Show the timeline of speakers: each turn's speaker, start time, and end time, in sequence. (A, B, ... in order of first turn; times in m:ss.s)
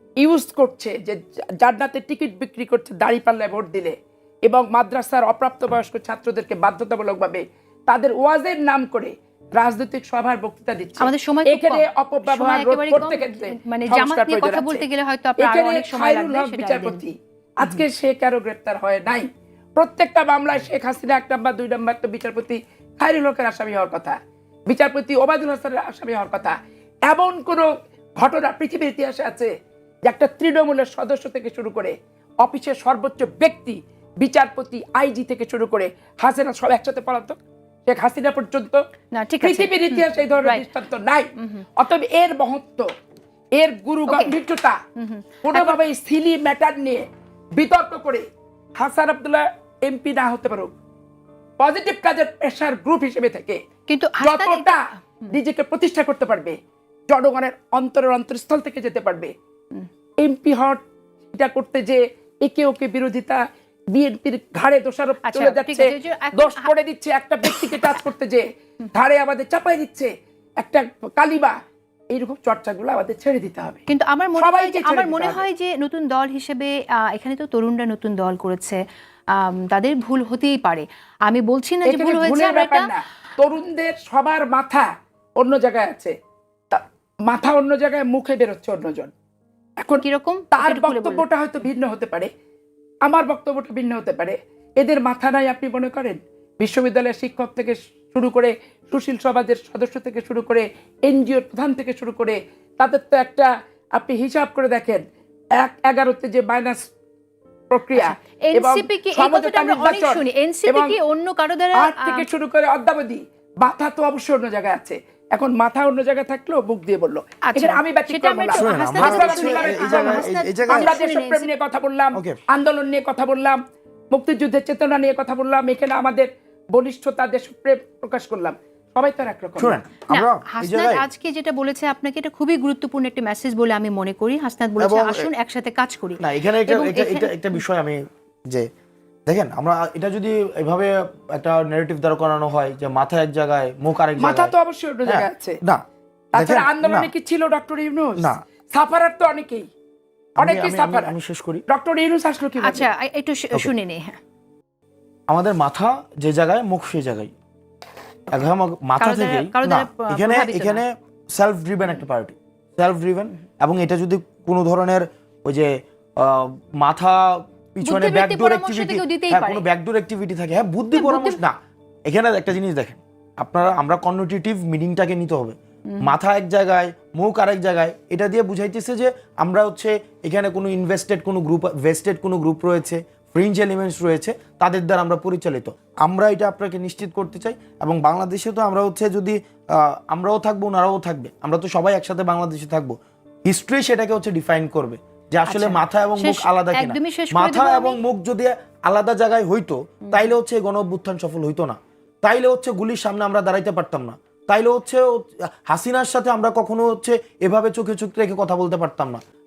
0:00.2-0:14.8 A
0:11.0-0:17.0 B
0:15.4-0:29.5 A
0:30.0-0:38.8 A
0:39.1-0:40.7 B
0:39.4-0:42.9 A
0:41.4-0:41.6 B
0:43.6-0:44.8 A
0:44.1-0:44.3 B
0:45.0-0:45.8 B
0:45.4-0:48.2 A
0:48.8-0:50.7 A
0:51.6-0:53.6 A
0:53.9-0:55.4 B
0:54.2-0:56.6 A
0:57.1-0:59.3 A
1:00.2-1:00.8 A
1:01.3-1:11.6 A
1:05.2-1:06.7 B
1:07.4-1:07.8 B
1:12.1-1:13.8 A
1:13.9-1:18.8 B
1:14.4-1:15.4 A
1:19.3-1:22.9 B
1:21.8-1:26.1 A
1:26.7-1:29.1 A
1:29.8-1:32.3 A
1:30.0-1:31.2 B
1:33.0-1:45.0 A
1:45.6-1:46.9 A
1:47.7-1:51.0 A
1:47.9-1:52.3 B
1:51.7-2:03.6 A
1:57.5-2:01.5 B
1:58.6-2:00.9 C
2:04.1-2:09.8 A
2:09.6-2:11.0 C
2:10.1-2:17.6 B
2:14.8-2:15.3 C
2:16.2-2:18.7 C
2:19.3-2:24.5 C
2:24.2-2:25.6 A
2:25.1-2:25.8 C
2:26.3-2:29.7 A
2:26.4-2:27.1 C
2:30.4-2:31.6 C
2:30.4-2:31.1 A
2:31.7-2:32.9 A
2:32.6-2:34.2 B
2:35.3-2:37.3 C
2:38.3-3:29.2 C
2:39.0-2:40.8 B
2:47.8-2:49.6 B
2:50.9-2:51.4 B
3:15.5-3:18.0 B